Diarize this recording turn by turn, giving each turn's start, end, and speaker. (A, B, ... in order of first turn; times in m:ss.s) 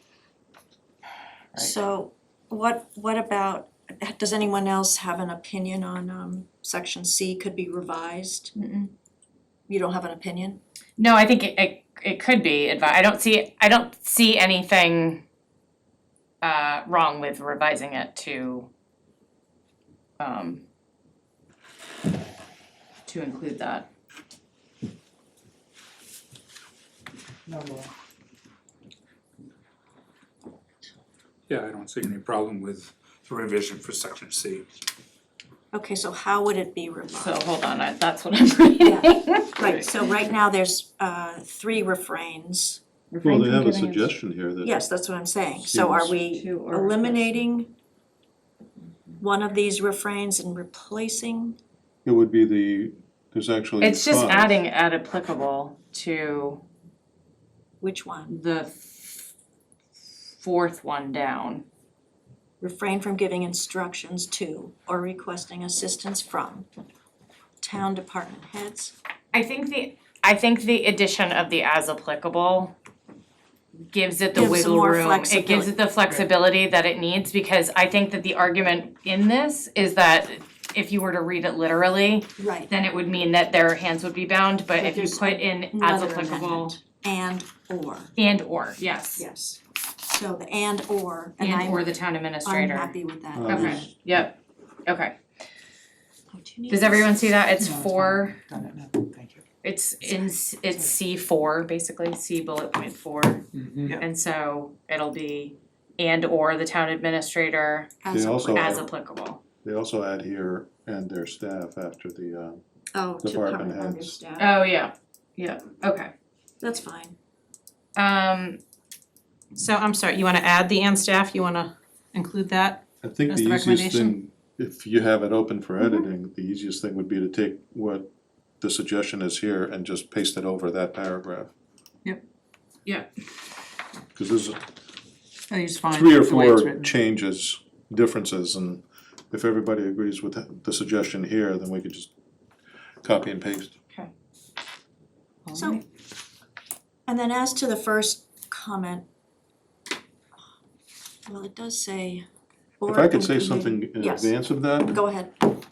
0:01.6-0:08.5 A
0:08.6-0:08.9 B
0:09.7-0:10.6 A
0:11.0-0:15.2 B
0:16.4-0:18.7 B
0:20.2-0:20.6 B
0:23.1-0:23.9 B
0:27.5-0:27.9 C
0:31.5-0:34.7 D
0:35.7-0:37.4 A
0:37.2-0:39.8 B
0:38.8-0:42.8 A
0:43.1-0:44.1 B
0:43.2-0:44.8 E
0:44.6-0:47.7 A
0:45.7-0:46.2 E
0:46.2-0:47.4 B
0:49.2-0:51.6 A
0:52.0-0:54.6 E
0:53.8-0:56.6 B
0:57.8-0:58.4 A
0:58.3-0:59.3 B
1:00.4-1:01.6 B
1:02.6-1:06.7 A
1:07.6-1:08.9 A
1:09.3-1:12.8 B
1:13.8-1:26.8 B
1:14.3-1:15.7 A
1:22.4-1:22.7 A
1:24.8-1:28.1 A
1:28.2-1:29.2 B
1:29.2-1:34.0 A
1:31.4-1:33.0 B
1:33.4-1:33.8 E
1:33.5-1:35.2 B
1:36.3-1:37.2 A
1:36.7-1:38.4 B
1:37.6-1:39.4 C
1:39.6-1:47.9 B
1:40.1-1:40.3 A
1:43.5-1:44.0 C
1:48.0-1:48.8 A
1:48.1-1:48.9 E
1:48.5-1:49.4 B
1:49.6-1:52.6 E
1:52.9-1:54.6 A
1:53.2-1:54.2 E
1:54.4-1:56.1 B
1:56.6-1:57.2 A
1:58.0-1:58.6 B
1:59.5-2:04.2 F
2:03.0-2:08.1 E
2:08.6-2:11.5 E
2:14.2-2:14.6 E
2:15.5-2:16.9 C
2:15.9-2:22.1 E
2:23.0-2:23.8 E
2:25.5-2:25.8 C
2:25.5-2:25.8 A
2:27.1-2:29.0 A
2:31.3-2:32.2 A
2:32.8-2:35.4 A
2:32.9-2:35.0 E